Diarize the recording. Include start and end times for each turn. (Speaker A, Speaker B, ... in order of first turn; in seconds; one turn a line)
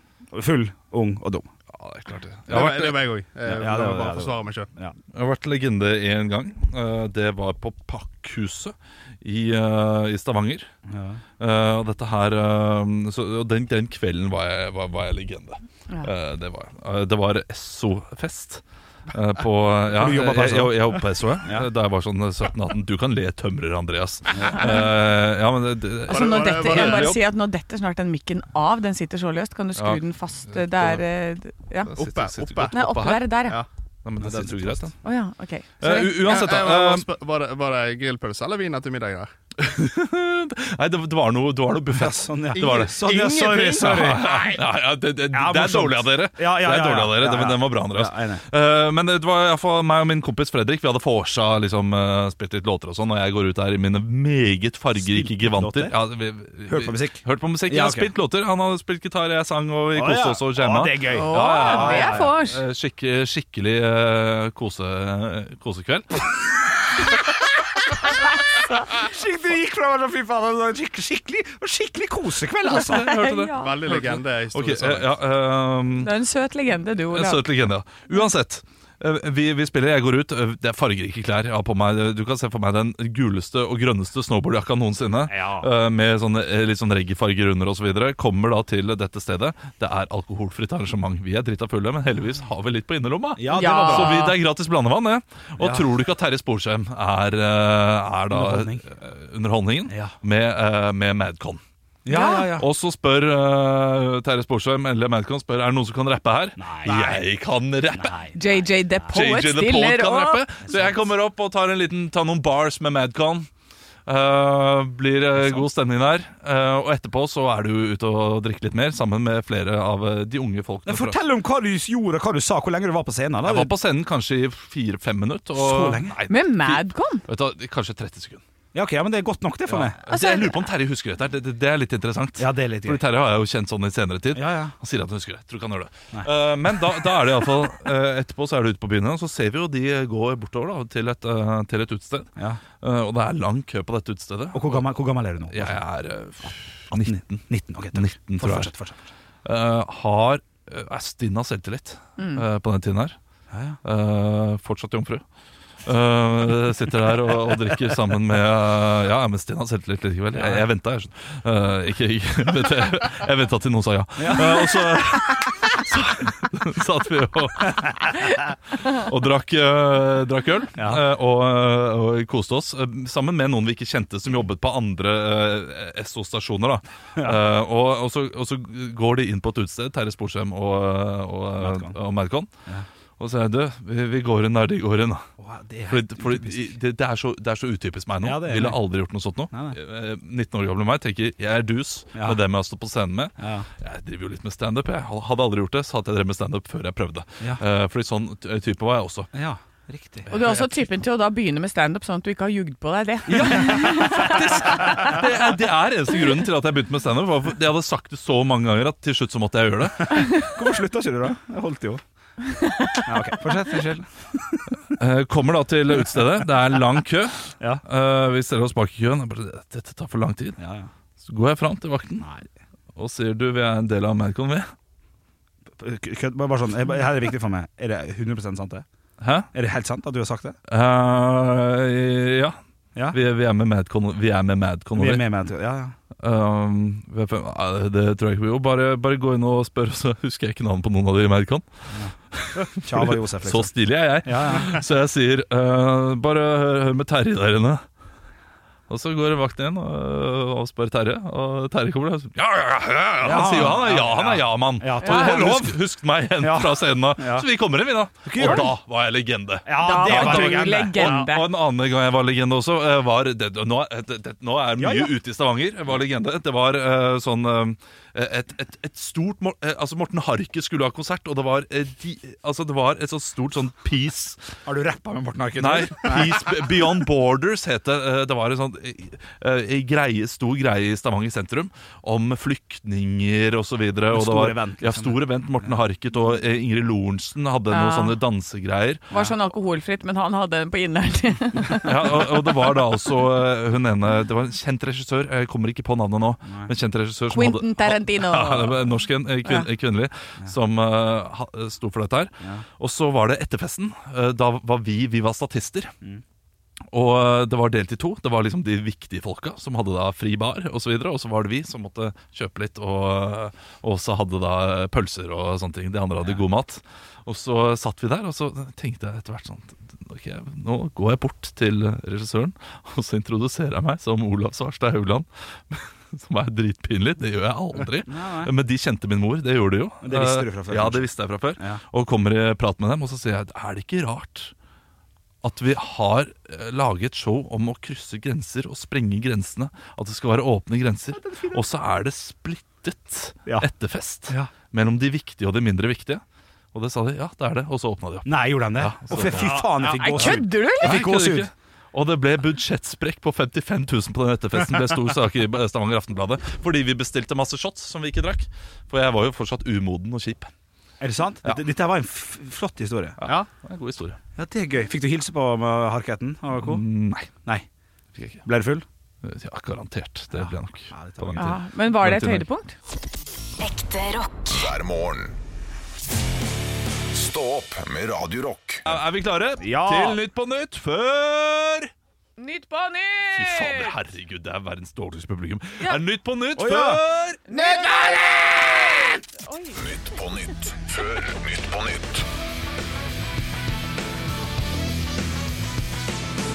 Speaker A: 0.3-1.5
Speaker B: 1.7-3.0
Speaker C: 2.5-4.7
Speaker A: 3.4-5.0
Speaker B: 5.1-10.7
Speaker A: 10.9-11.2
Speaker B: 11.4-27.2
Speaker A: 19.9-21.7
Speaker A: 24.3-24.7
Speaker D: 26.1-31.9
Speaker C: 26.1-27.2
Speaker B: 29.8-31.0
Speaker C: 31.9-32.8
Speaker B: 31.9-33.3
Speaker D: 32.7-33.6
Speaker B: 34.0-34.9
Speaker A: 34.2-34.9
Speaker D: 35.0-36.3
Speaker B: 35.8-37.1
Speaker C: 36.2-39.3
Speaker B: 39.6-66.3
Speaker A: 41.9-44.6
Speaker C: 42.5-43.9
Speaker A: 45.3-48.4
Speaker A: 55.0-55.9
Speaker A: 56.7-58.1
Speaker A: 59.9-62.3
Speaker D: 61.1-62.6
Speaker A: 68.8-73.1
Speaker B: 72.7-76.1
Speaker D: 72.9-73.8
Speaker C: 73.5-75.1
Speaker D: 76.0-77.4
Speaker B: 77.1-101.6
Speaker A: 85.3-85.7
Speaker A: 93.3-94.3
Speaker D: 93.5-94.4
Speaker A: 95.6-95.8
Speaker A: 98.3-98.8
Speaker A: 99.9-100.1
Speaker A: 102.0-102.7
Speaker D: 102.1-102.5
Speaker B: 102.5-108.2
Speaker A: 106.6-107.2
Speaker A: 107.9-109.2
Speaker D: 108.3-110.4
Speaker B: 109.1-113.5
Speaker A: 110.7-111.0
Speaker B: 114.0-121.2
Speaker A: 115.4-115.6
Speaker A: 120.8-123.7
Speaker B: 123.4-128.4
Speaker A: 125.5-126.2
Speaker D: 126.3-127.2
Speaker A: 128.7-130.0
Speaker B: 129.7-144.8
Speaker D: 130.1-130.6
Speaker A: 132.4-133.0
Speaker A: 134.3-134.7
Speaker A: 144.5-145.8
Speaker B: 145.5-148.7
Speaker A: 146.9-149.1
Speaker B: 149.4-153.2
Speaker D: 152.2-152.4
Speaker A: 153.5-153.8
Speaker B: 153.8-155.2
Speaker B: 155.8-168.1
Speaker A: 160.3-160.6
Speaker A: 164.2-165.0
Speaker B: 168.8-182.5
Speaker A: 170.8-171.0
Speaker A: 181.6-182.0
Speaker B: 183.2-185.2
Speaker A: 185.4-186.7
Speaker B: 185.9-199.3
Speaker A: 188.2-188.8
Speaker A: 189.5-189.8
Speaker A: 192.1-192.4
Speaker A: 193.4-193.7
Speaker A: 199.3-200.3
Speaker D: 200.3-205.2
Speaker B: 200.3-200.6
Speaker B: 203.3-210.3
Speaker A: 203.4-204.3
Speaker A: 210.1-212.0
Speaker D: 212.4-213.1
Speaker A: 213.0-214.8
Speaker B: 214.9-220.6
Speaker A: 220.6-220.9
Speaker B: 221.2-222.3
Speaker A: 222.2-222.4
Speaker B: 222.9-224.7
Speaker A: 225.8-228.8
Speaker B: 229.2-229.5
Speaker A: 229.5-230.6
Speaker B: 230.7-232.6
Speaker B: 233.1-235.3
Speaker A: 234.9-235.9
Speaker B: 236.2-241.7
Speaker A: 241.9-244.8
Speaker B: 242.3-247.8
Speaker B: 248.9-274.5
Speaker A: 253.2-255.8
Speaker D: 255.0-255.3
Speaker A: 256.4-257.5
Speaker A: 258.2-258.8
Speaker A: 259.6-261.3
Speaker D: 259.8-261.5
Speaker A: 264.8-265.1
Speaker A: 274.6-276.7
Speaker B: 275.6-289.1
Speaker A: 284.1-285.8
Speaker D: 287.7-288.2
Speaker D: 289.1-292.2
Speaker B: 291.7-305.9
Speaker A: 296.5-296.7
Speaker D: 297.3-298.9
Speaker B: 306.9-334.5
Speaker A: 328.0-328.5
Speaker A: 330.0-331.8
Speaker B: 335.4-346.2
Speaker A: 341.1-341.6
Speaker B: 346.7-360.5
Speaker A: 348.2-351.5
Speaker D: 349.6-351.0
Speaker A: 361.0-363.2
Speaker B: 363.2-364.2
Speaker A: 364.4-366.8
Speaker B: 366.6-367.3
Speaker B: 368.2-368.4
Speaker A: 368.4-368.9
Speaker B: 369.2-372.5
Speaker A: 370.3-371.5
Speaker D: 371.4-372.7
Speaker E: 373.6-375.4
Speaker E: 377.1-378.9
Speaker B: 378.9-381.9
Speaker A: 379.6-380.2
Speaker D: 382.4-383.9
Speaker B: 383.3-387.4
Speaker A: 386.6-388.7
Speaker D: 387.5-389.8
Speaker E: 389.8-392.2